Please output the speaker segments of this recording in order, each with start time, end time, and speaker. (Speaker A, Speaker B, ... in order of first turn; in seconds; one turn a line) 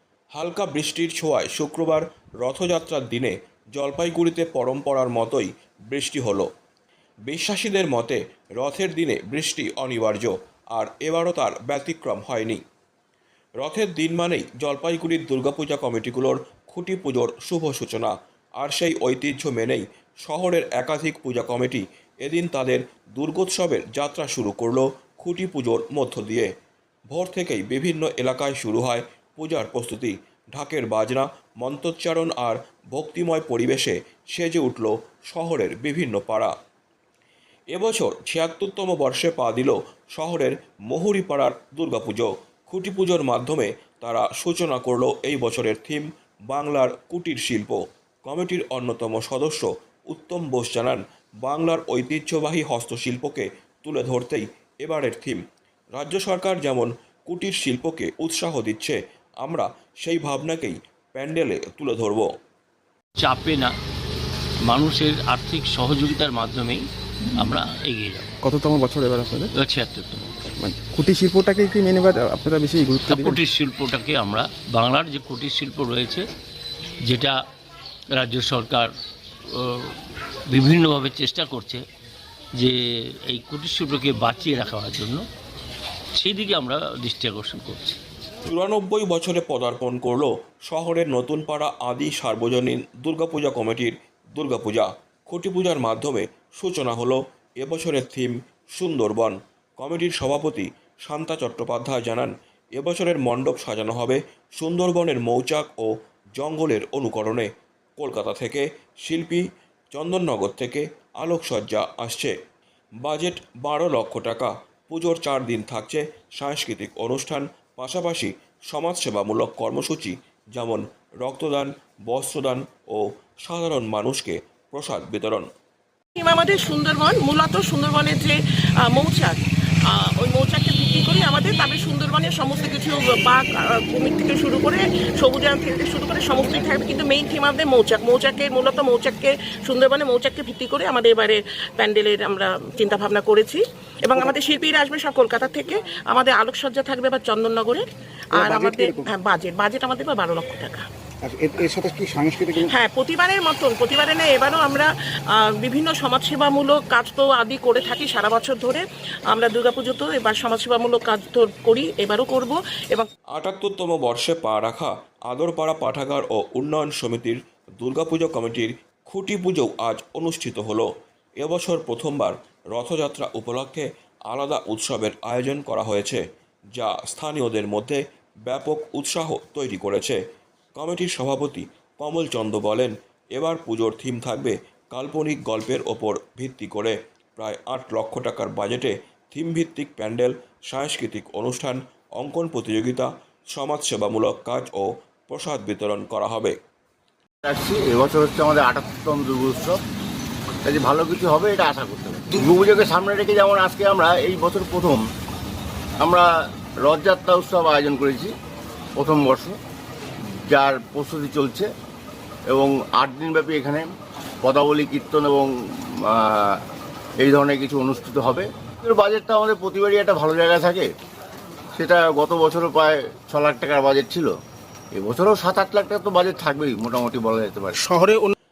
Speaker A: 0.3-6.5
Speaker A: 7.3-12.6
Speaker A: 13.6-26.5
Speaker A: 27.1-36.5
Speaker A: 37.7-55.4
Speaker A: 56.0-62.3
Speaker B: 63.2-63.7
Speaker B: 64.7-66.8
Speaker B: 67.4-68.4
Speaker C: 68.4-69.5
Speaker B: 69.6-70.2
Speaker C: 70.6-73.4
Speaker B: 73.1-76.2
Speaker B: 77.1-77.3
Speaker B: 78.1-78.9
Speaker B: 79.5-79.9
Speaker B: 80.5-81.8
Speaker B: 82.6-85.2
Speaker B: 86.1-88.0
Speaker A: 88.5-112.3
Speaker A: 113.0-125.5
Speaker D: 126.2-147.8
Speaker D: 148.4-150.8
Speaker E: 148.4-149.1
Speaker E: 151.2-152.7
Speaker D: 152.6-163.1
Speaker A: 163.3-170.9
Speaker A: 171.4-176.2
Speaker A: 176.8-180.2
Speaker A: 180.8-196.5
Speaker F: 197.4-199.8
Speaker F: 200.6-205.0
Speaker F: 206.0-206.3
Speaker F: 206.8-208.3
Speaker F: 209.0-209.6
Speaker F: 210.4-211.7
Speaker F: 212.5-213.9
Speaker F: 214.4-215.5
Speaker F: 216.0-216.6
Speaker F: 217.2-220.9
Speaker F: 221.8-224.3
Speaker F: 224.9-227.8
Speaker C: 227.9-228.3